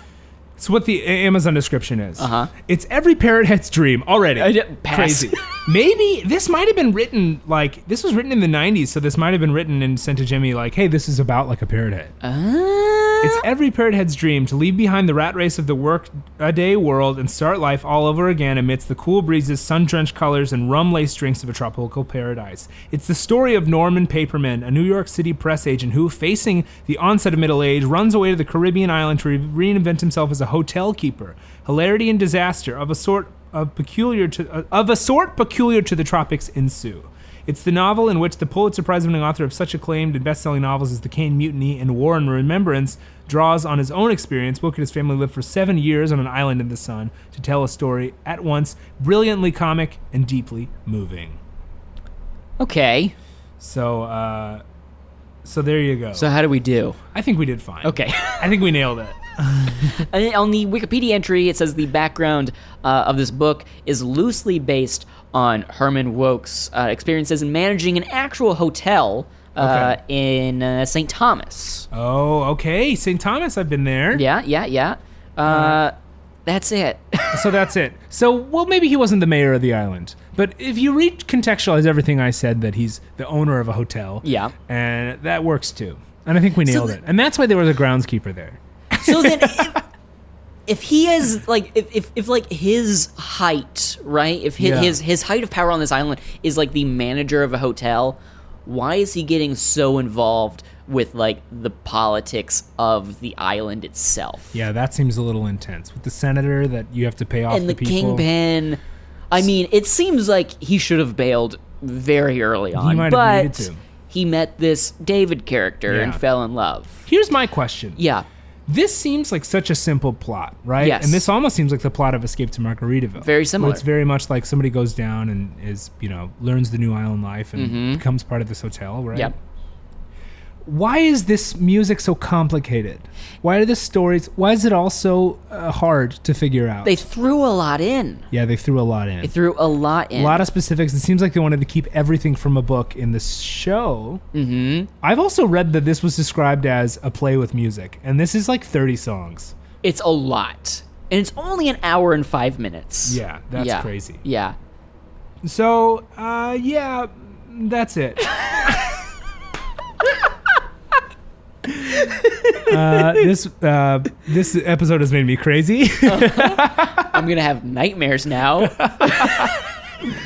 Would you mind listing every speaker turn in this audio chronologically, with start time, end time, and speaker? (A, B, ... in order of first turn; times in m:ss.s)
0:00.6-0:12.1 A
0:02.2-0:02.5 B
0:04.4-0:05.4 B
0:12.2-0:13.4 B
0:13.2-0:51.4 A
0:52.6-0:53.1 B
0:53.6-0:54.6 A
0:55.4-0:56.3 A
0:56.2-0:57.0 B
0:57.1-1:00.0 A
0:57.8-0:58.4 B
1:00.0-1:11.9 B
1:09.6-1:10.0 A
1:11.9-1:14.2 A
1:14.1-1:15.9 B
1:15.4-1:15.8 A
1:16.5-1:17.4 B
1:17.3-1:29.8 A
1:24.2-1:24.5 B
1:26.7-1:26.9 B
1:29.0-1:29.8 B
1:30.7-1:44.5 B
1:34.6-1:35.0 A
1:44.5-1:48.3 A
1:47.5-1:48.8 B
1:49.3-1:57.0 B
1:52.7-1:53.8 A
1:55.9-1:56.2 A
1:57.1-1:58.0 A
1:58.0-1:58.3 B
1:58.7-2:09.4 A
2:00.8-2:01.2 B
2:03.2-2:03.8 B
2:07.6-2:08.0 B
2:10.6-2:17.0 A
2:16.8-2:18.3 B
2:18.3-2:19.3 A
2:19.2-2:20.5 B
2:20.1-2:24.2 A
2:24.3-2:24.9 B
2:25.0-2:29.5 A
2:29.8-2:34.6 B
2:33.1-2:34.2 A
2:35.4-2:38.9 A
2:42.5-2:43.1 B
2:42.7-2:47.1 A
2:46.0-2:49.5 B
2:48.6-2:49.5 A